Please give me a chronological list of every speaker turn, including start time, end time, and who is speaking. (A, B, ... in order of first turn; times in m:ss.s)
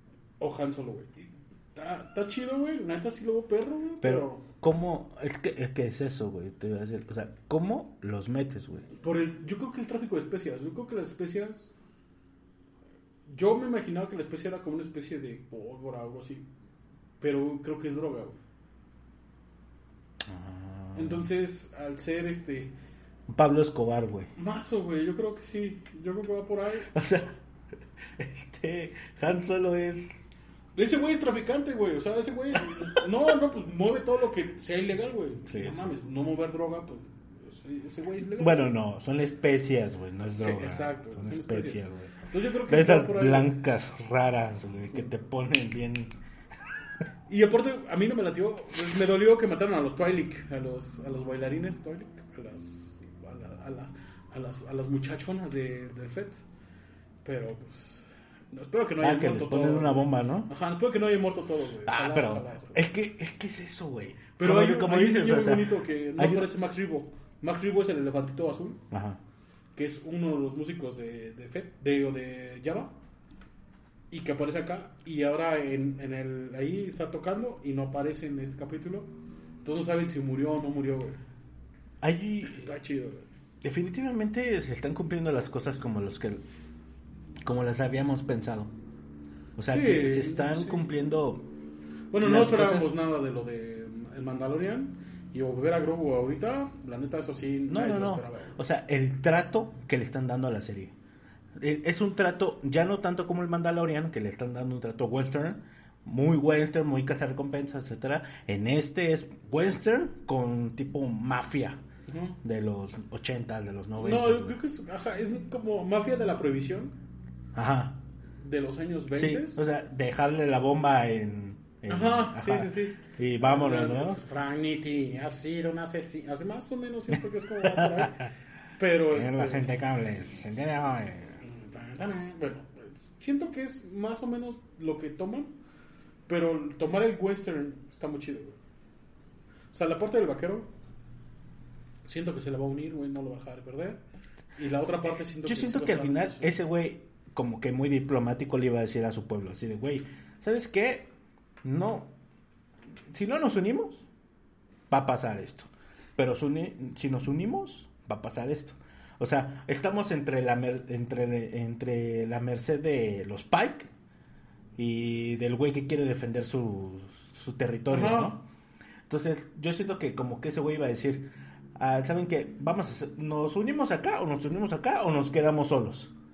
0:00.4-0:04.4 A
0:04.0-0:08.8 B
0:08.9-0:11.7 A
0:13.3-0:16.4 A
0:17.2-0:18.4 A
0:20.2-0:21.3 B
0:20.9-0:22.7 A
0:23.3-0:24.3 B
0:24.4-0:26.9 A
0:26.9-0:27.3 B
0:28.2-0:30.1 B
0:30.7-0:38.7 A
0:32.5-0:33.0 B
0:35.5-0:35.9 B
0:38.4-0:46.1 B
0:40.4-0:43.5 A
0:47.3-0:56.4 A
0:57.2-1:02.8 A
0:59.0-1:00.5 B
1:01.8-1:06.5 B
1:04.4-1:08.8 A
1:08.9-1:09.2 B
1:09.8-1:13.0 A
1:14.1-1:19.1 A
1:19.6-1:21.2 A
1:22.0-1:22.7 B
1:22.4-1:23.3 A
1:23.6-1:26.4 B
1:27.4-1:28.7 B
1:29.6-1:31.4 B
1:29.7-1:30.9 A
1:32.1-1:38.6 A
1:32.2-1:32.9 B
1:37.7-1:40.9 B
1:41.6-1:51.8 B
1:52.1-1:52.4 A
1:52.4-1:54.5 B
1:54.0-1:57.0 A
1:57.5-1:58.0 B
1:58.4-1:59.6 A
1:59.1-2:04.2 B
2:01.9-2:09.7 A
2:07.6-2:08.3 B
2:09.1-2:11.4 B
2:11.4-2:15.5 A
2:16.3-2:18.6 A
2:19.7-2:20.7 A
2:22.0-2:24.0 A
2:24.6-2:26.5 A
2:25.4-2:32.1 B
2:33.1-2:34.1 B
2:34.9-2:43.9 B
2:44.8-2:48.4 B
2:47.9-2:48.3 A
2:49.1-2:56.1 B